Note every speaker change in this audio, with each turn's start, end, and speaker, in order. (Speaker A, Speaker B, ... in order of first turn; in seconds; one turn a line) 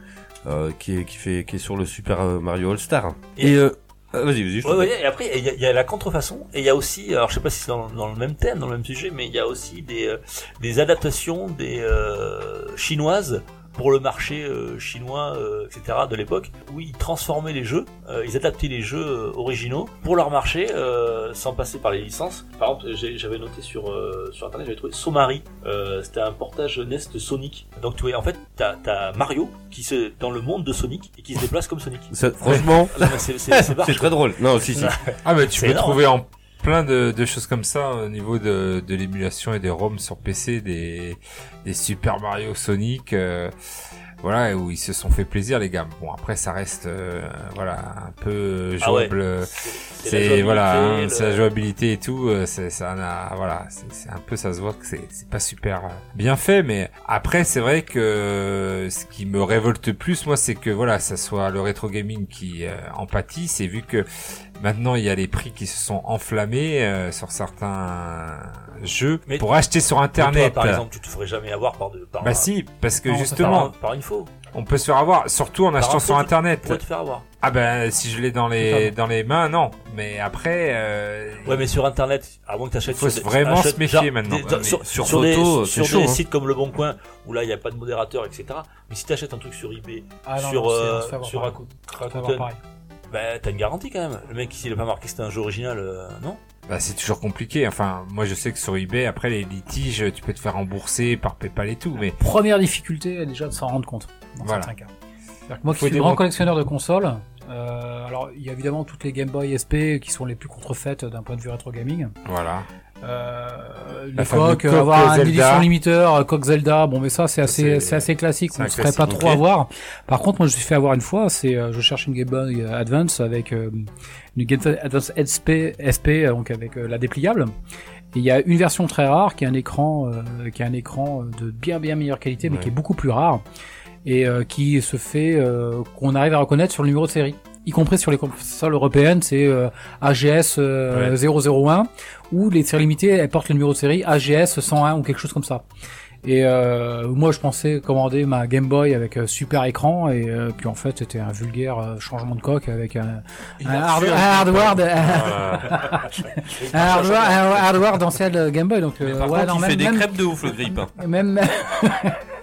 Speaker A: 0.5-4.9
Speaker B: 4.6-36.0
Speaker A: 32.1-34.9
Speaker C: 35.2-43.5
Speaker C: 44.2-64.1
Speaker B: 48.8-51.5
Speaker C: 64.6-70.8
Speaker B: 70.2-72.5
Speaker C: 72.2-73.7
Speaker D: 73.1-73.7
Speaker B: 73.1-74.3
Speaker C: 74.5-76.8
Speaker B: 75.8-77.2
Speaker C: 77.4-81.7
Speaker D: 78.6-78.9
Speaker B: 81.5-92.5
Speaker C: 82.9-84.6
Speaker A: 84.4-86.2
Speaker D: 90.2-92.6
Speaker B: 93.1-96.4
Speaker C: 96.7-102.2
Speaker D: 102.0-104.9
Speaker C: 104.4-104.7
Speaker D: 105.5-112.1
Speaker C: 105.7-106.2
Speaker C: 112.3-112.7
Speaker D: 113.0-127.5
Speaker C: 114.2-115.7
Speaker C: 117.4-119.4
Speaker A: 119.1-119.4
Speaker D: 128.1-133.4
Speaker A: 132.4-132.7
Speaker D: 134.0-145.7
Speaker D: 146.2-160.1
Speaker B: 153.6-154.8
Speaker C: 155.0-155.7
Speaker B: 156.5-157.8
Speaker A: 159.0-160.9
Speaker D: 160.9-162.2